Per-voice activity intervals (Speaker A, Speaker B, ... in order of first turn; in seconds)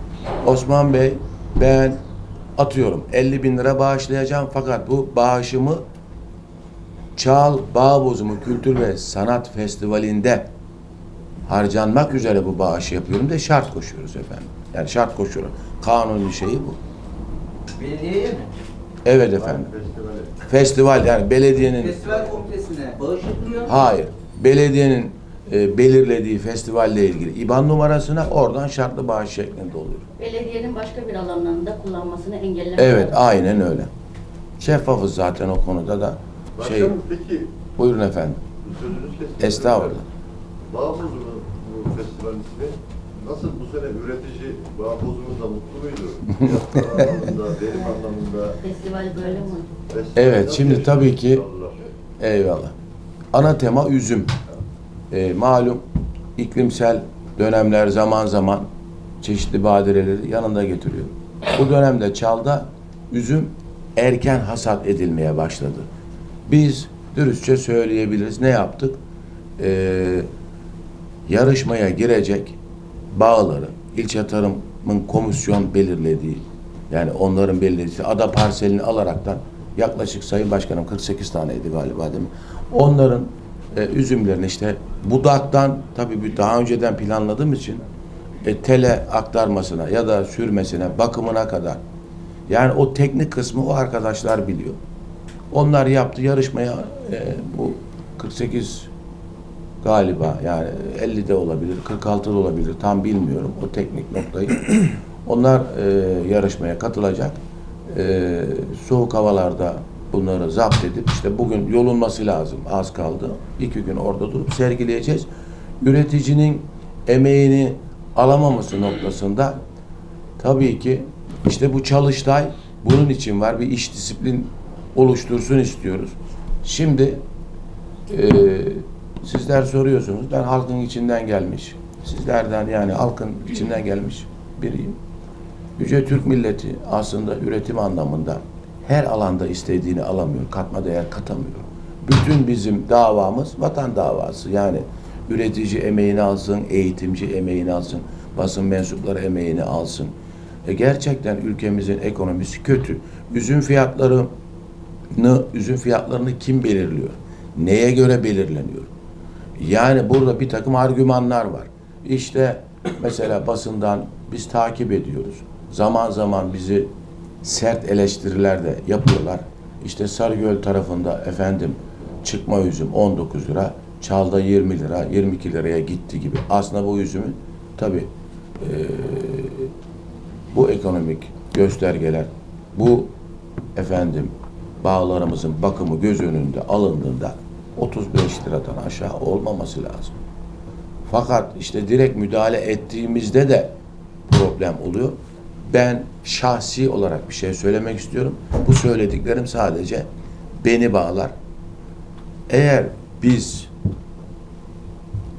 Speaker A: 0.4-2.0, 2.6-5.8, 7.2-10.5, 11.5-16.8, 19.0-19.7, 20.4-22.0, 23.6-30.1, 32.8-33.9, 34.6-36.9, 37.8-38.4, 39.4-40.0, 50.1-51.4, 52.2-52.7, 53.3-54.3, 55.1-55.8, 56.4-58.7, 59.2-65.9, 66.5-69.0, 69.6-70.3, 71.3-72.6, 73.1-87.8, 88.4-91.8, 92.5-94.8, 95.5-98.9, 99.8-115.3, 115.8-119.6, 120.4-127.2, 128.1-135.0, 135.8-150.1, 150.6-154.3, 155.1-158.9, 159.6-166.9, 167.4-178.1, 178.6-179.7, 180.5-183.1, 183.7-190.1, 191.1-193.7, 194.3-200.1, 200.6-201.3, 202.5-203.7
Speaker B: 17.7-18.5, 21.7-23.9
Speaker C: 19.3-20.3, 36.6-37.5, 38.6-40.0, 40.7-48.6, 49.9-51.7
Speaker D: 30.2-33.3, 48.6-49.7